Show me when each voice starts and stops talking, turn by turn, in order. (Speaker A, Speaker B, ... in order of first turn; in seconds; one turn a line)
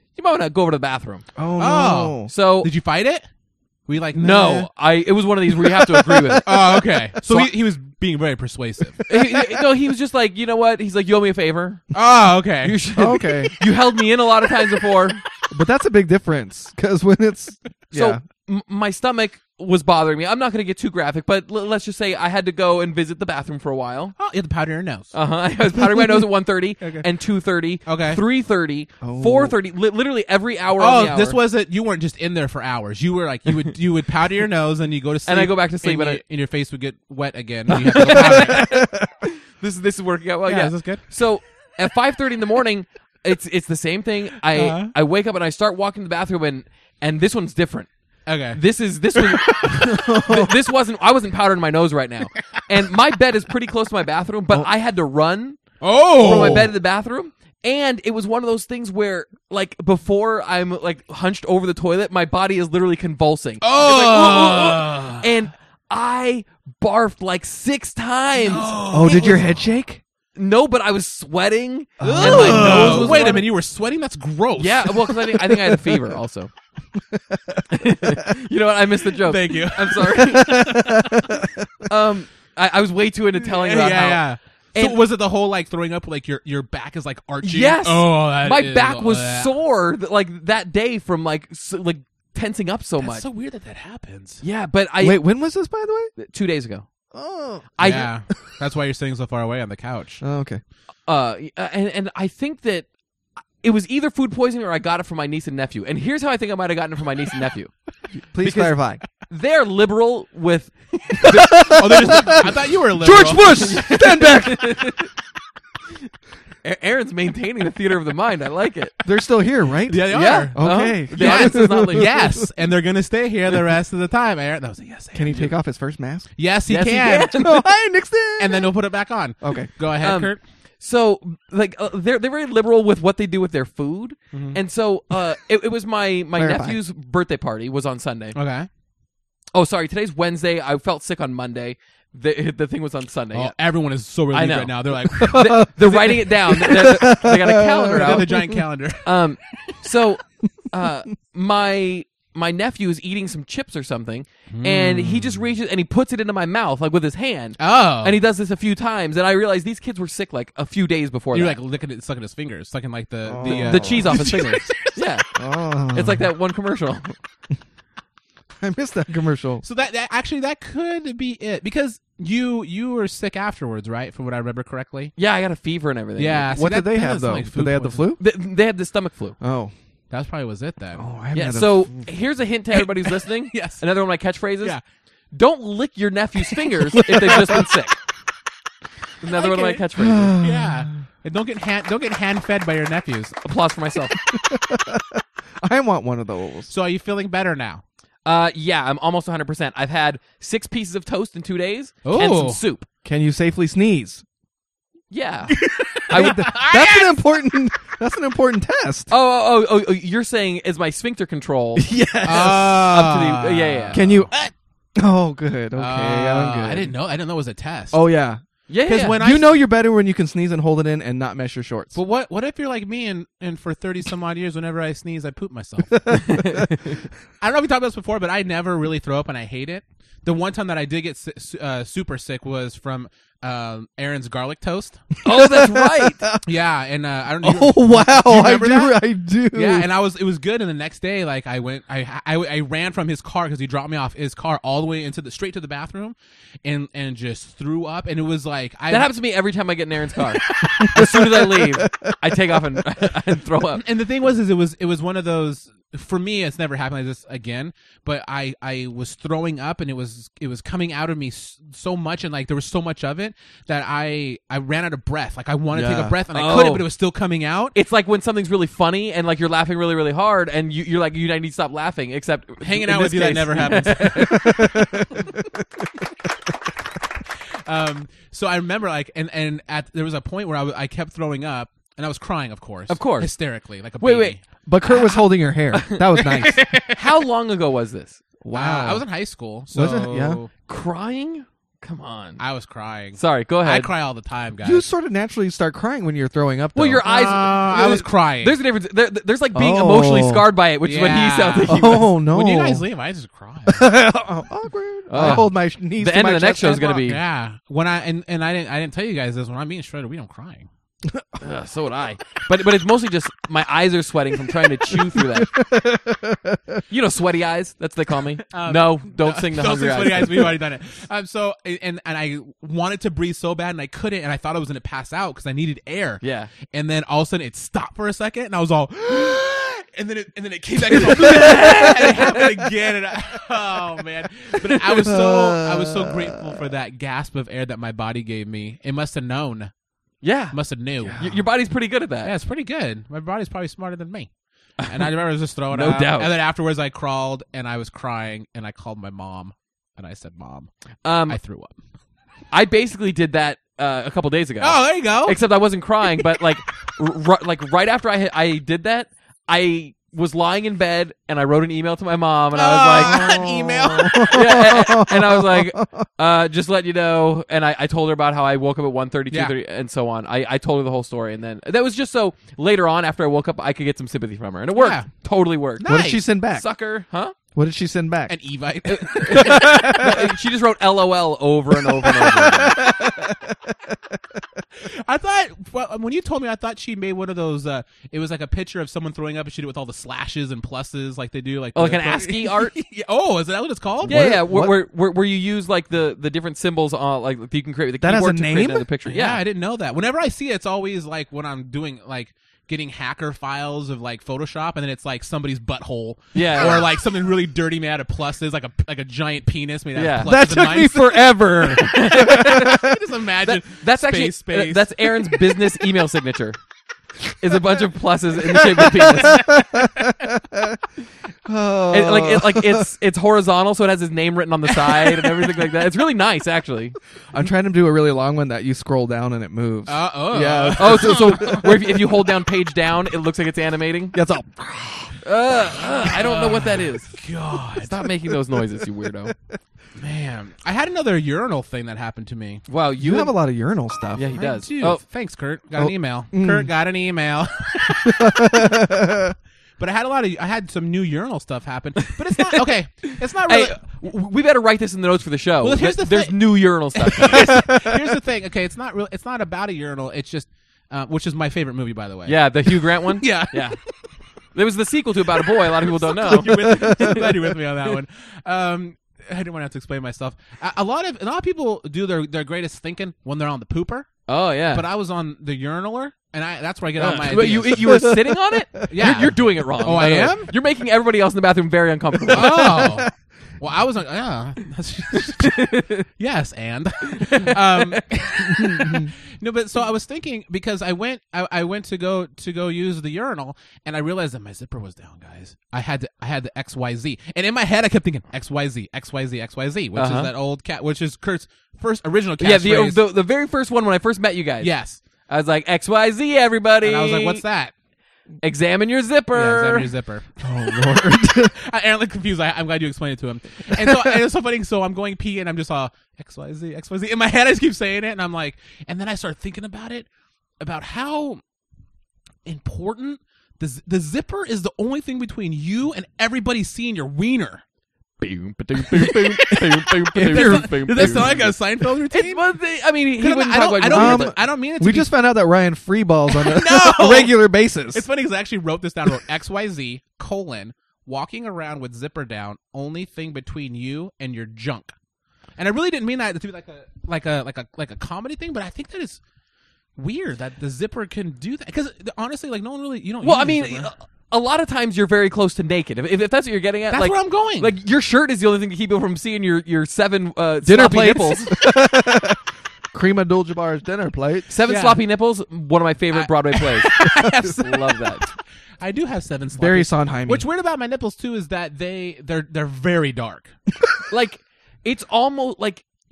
Speaker A: 0.1-1.2
Speaker B: 1.4-2.3
Speaker C: 1.6-3.3
Speaker A: 2.3-2.7
Speaker C: 3.9-4.7
Speaker A: 4.2-7.5
Speaker B: 5.9-6.7
Speaker C: 6.4-9.1
Speaker B: 9.0-9.6
Speaker A: 9.1-11.8
Speaker C: 11.9-12.8
Speaker A: 12.6-15.2
Speaker B: 12.9-13.6
Speaker B: 15.5-18.2
Speaker A: 17.9-24.1
Speaker C: 24.2-25.1
Speaker A: 25.1-31.4
Speaker C: 26.8-27.1
Speaker C: 27.9-28.2
Speaker B: 29.0-29.6
Speaker C: 30.8-38.7
Speaker A: 35.2-36.2
Speaker A: 37.7-38.9
Speaker B: 38.0-39.1
Speaker A: 39.6-47.9
Speaker C: 40.4-41.0
Speaker C: 44.5-44.9
Speaker C: 48.2-48.6
Speaker A: 48.5-55.6
Speaker C: 49.1-49.7
Speaker B: 49.7-50.6
Speaker C: 55.8-56.7
Speaker A: 56.2-69.4
Speaker B: 56.2-56.7
Speaker C: 63.6-65.3
Speaker C: 68.3-69.6
Speaker B: 68.9-70.0
Speaker A: 70.3-73.4
Speaker B: 72.0-73.5
Speaker C: 72.2-75.7
Speaker A: 74.6-76.5
Speaker B: 77.1-78.2
Speaker A: 77.7-80.9
Speaker C: 79.2-81.1
Speaker B: 80.3-81.7
Speaker A: 81.9-84.2
Speaker C: 83.4-89.5
Speaker A: 84.7-85.0
Speaker A: 87.4-93.2
Speaker C: 93.0-94.4
Speaker A: 94.4-95.2
Speaker B: 95.0-96.1
Speaker A: 96.2-96.8
Speaker B: 97.1-98.2
Speaker A: 97.8-98.1
Speaker C: 97.8-100.2
Speaker B: 100.2-100.6
Speaker A: 101.1-102.9
Speaker A: 103.6-107.7
Speaker B: 108.2-109.0
Speaker C: 108.4-108.7
Speaker A: 109.3-112.3
Speaker B: 111.2-115.0
Speaker C: 111.7-113.7
Speaker A: 113.4-115.1
Speaker A: 116.6-118.9
Speaker B: 119.0-122.5
Speaker C: 119.8-125.5
Speaker A: 120.1-122.1
Speaker B: 125.1-126.3
Speaker C: 126.4-127.6
Speaker A: 126.7-127.6
Speaker B: 127.3-128.7
Speaker C: 128.4-130.4
Speaker B: 129.4-129.7
Speaker A: 130.0-138.3
Speaker C: 134.3-134.6
Speaker B: 136.3-136.8
Speaker C: 138.3-138.7
Speaker A: 139.5-143.6
Speaker C: 143.3-146.2
Speaker A: 144.3-148.3
Speaker B: 145.1-148.6
Speaker C: 147.9-149.2
Speaker A: 149.0-161.6
Speaker C: 154.5-155.4
Speaker C: 157.6-158.2
Speaker C: 161.3-164.9
Speaker B: 163.2-164.6
Speaker A: 163.4-165.2
Speaker B: 165.3-166.3
Speaker A: 165.9-167.1
Speaker B: 168.6-169.6
Speaker C: 169.6-175.1
Speaker A: 175.2-176.5
Speaker C: 176.2-178.1
Speaker B: 176.5-178.2
Speaker A: 178.2-179.3
Speaker B: 179.4-179.7
Speaker C: 180.1-181.0
Speaker B: 180.9-182.1
Speaker A: 181.3-184.8
Speaker C: 182.7-183.8
Speaker A: 185.3-187.9
Speaker B: 186.9-187.7
Speaker A: 189.2-190.3
Speaker C: 189.3-189.8
Speaker B: 189.9-190.9
Speaker C: 190.4-193.4
Speaker A: 193.4-194.1
Speaker B: 194.2-196.7
Speaker C: 196.7-197.8
Speaker A: 198.2-202.8
Speaker C: 202.0-202.6
Speaker B: 203.0-204.2
Speaker A: 205.1-205.6
Speaker C: 205.5-207.3
Speaker A: 206.1-206.5
Speaker B: 206.1-209.1
Speaker A: 209.1-211.9
Speaker B: 211.8-213.1
Speaker C: 212.2-214.5
Speaker A: 212.7-214.0
Speaker B: 213.9-214.3
Speaker B: 214.9-216.9
Speaker C: 215.8-218.0
Speaker B: 217.9-218.4
Speaker A: 218.7-219.2
Speaker C: 218.8-219.6
Speaker B: 219.2-222.0
Speaker C: 221.9-226.2
Speaker B: 226.1-226.7
Speaker A: 226.3-226.9
Speaker C: 227.4-235.0
Speaker A: 235.2-236.2
Speaker B: 235.2-236.4
Speaker C: 236.4-249.1
Speaker B: 237.4-239.9
Speaker A: 248.9-253.8
Speaker C: 250.4-250.9
Speaker B: 250.6-252.6
Speaker C: 253.8-267.7
Speaker B: 265.7-266.2
Speaker A: 266.3-266.9
Speaker A: 267.7-274.8
Speaker C: 272.6-274.7
Speaker B: 274.1-275.6
Speaker C: 277.6-284.4
Speaker A: 282.9-283.3
Speaker A: 284.0-284.4
Speaker B: 284.6-286.7
Speaker A: 285.7-286.3
Speaker C: 286.4-286.9
Speaker A: 286.8-288.2
Speaker B: 288.4-289.0
Speaker C: 288.5-290.5
Speaker B: 289.7-290.4
Speaker A: 290.7-292.4
Speaker C: 292.4-294.9
Speaker A: 293.1-293.9
Speaker B: 294.6-297.1
Speaker A: 296.7-302.1
Speaker C: 297.0-298.6
Speaker B: 299.5-300.5
Speaker C: 300.8-303.9
Speaker B: 301.6-302.8
Speaker B: 303.7-307.0
Speaker A: 305.1-307.2
Speaker C: 305.1-305.5
Speaker C: 307.0-310.7
Speaker A: 311.4-315.5
Speaker B: 314.9-316.8
Speaker A: 316.9-320.4
Speaker C: 318.5-339.7
Speaker A: 326.2-326.5
Speaker B: 330.9-332.5
Speaker A: 331.0-332.3
Speaker B: 334.9-336.6
Speaker A: 340.2-340.6
Speaker C: 340.5-341.4
Speaker B: 341.0-341.3
Speaker A: 341.2-342.3
Speaker C: 342.2-344.3
Speaker C: 344.9-350.7
Speaker A: 345.7-346.3
Speaker A: 351.0-351.4
Speaker C: 351.3-351.7
Speaker A: 352.5-363.2
Speaker C: 354.6-355.4
Speaker C: 362.5-364.7
Speaker B: 363.0-366.1
Speaker A: 364.3-375.9
Speaker C: 374.7-375.1
Speaker C: 375.8-376.2
Speaker B: 375.8-376.7
Speaker A: 376.5-377.3
Speaker B: 377.5-378.4
Speaker C: 378.3-380.2
Speaker A: 378.9-382.8
Speaker B: 379.6-380.0
Speaker B: 382.1-383.9
Speaker C: 384.8-394.2
Speaker A: 391.7-392.7
Speaker B: 394.0-394.8
Speaker A: 394.0-399.4
Speaker B: 398.0-398.9
Speaker C: 399.1-415.0
Speaker A: 406.3-406.9
Speaker A: 409.9-410.3
Speaker B: 410.2-413.0
Speaker A: 411.8-412.8
Speaker A: 413.5-416.6
Speaker A: 417.4-419.4
Speaker B: 418.5-420.8
Speaker B: 421.4-422.9
Speaker A: 421.9-426.9
Speaker B: 427.3-431.9
Speaker C: 429.9-431.7
Speaker A: 430.8-434.1
Speaker B: 434.1-435.2
Speaker A: 435.2-437.1
Speaker C: 436.0-438.1
Speaker A: 437.8-439.3
Speaker C: 440.0-442.6
Speaker A: 442.7-443.3
Speaker B: 443.0-444.3
Speaker A: 444.1-445.0
Speaker C: 444.3-448.7
Speaker B: 445.8-446.7
Speaker B: 448.0-449.3
Speaker C: 449.8-453.8
Speaker A: 452.1-457.6
Speaker C: 455.6-463.7
Speaker B: 457.3-458.0
Speaker A: 462.2-463.8
Speaker A: 464.5-467.2
Speaker C: 465.6-478.1
Speaker B: 466.4-467.5
Speaker A: 474.3-474.8
Speaker A: 477.0-482.8
Speaker B: 477.3-479.3
Speaker C: 478.9-480.5
Speaker B: 482.2-483.1
Speaker C: 482.3-503.0
Speaker A: 485.2-486.1
Speaker A: 487.1-487.8
Speaker B: 488.6-489.1
Speaker A: 499.9-500.3
Speaker A: 502.4-504.7
Speaker C: 504.6-505.0
Speaker A: 505.3-507.4
Speaker C: 506.8-507.7
Speaker A: 508.4-509.9
Speaker C: 509.3-510.3
Speaker B: 510.4-511.5
Speaker C: 511.2-520.1
Speaker B: 513.7-514.2
Speaker C: 520.6-521.4
Speaker C: 522.5-527.6
Speaker A: 528.2-531.5
Speaker C: 528.8-532.5
Speaker B: 530.2-531.5
Speaker A: 532.1-534.3
Speaker C: 533.2-535.1
Speaker B: 533.8-538.0
Speaker C: 536.3-544.9
Speaker C: 545.6-549.2
Speaker C: 550.0-553.9
Speaker A: 553.2-561.5
Speaker C: 556.9-557.7
Speaker B: 560.6-562.4
Speaker B: 562.9-564.5
Speaker A: 564.5-567.0
Speaker C: 564.7-565.0
Speaker C: 566.1-568.3
Speaker B: 567.0-567.4
Speaker A: 567.6-568.3
Speaker C: 568.8-573.5
Speaker B: 569.5-570.5
Speaker A: 574.1-575.8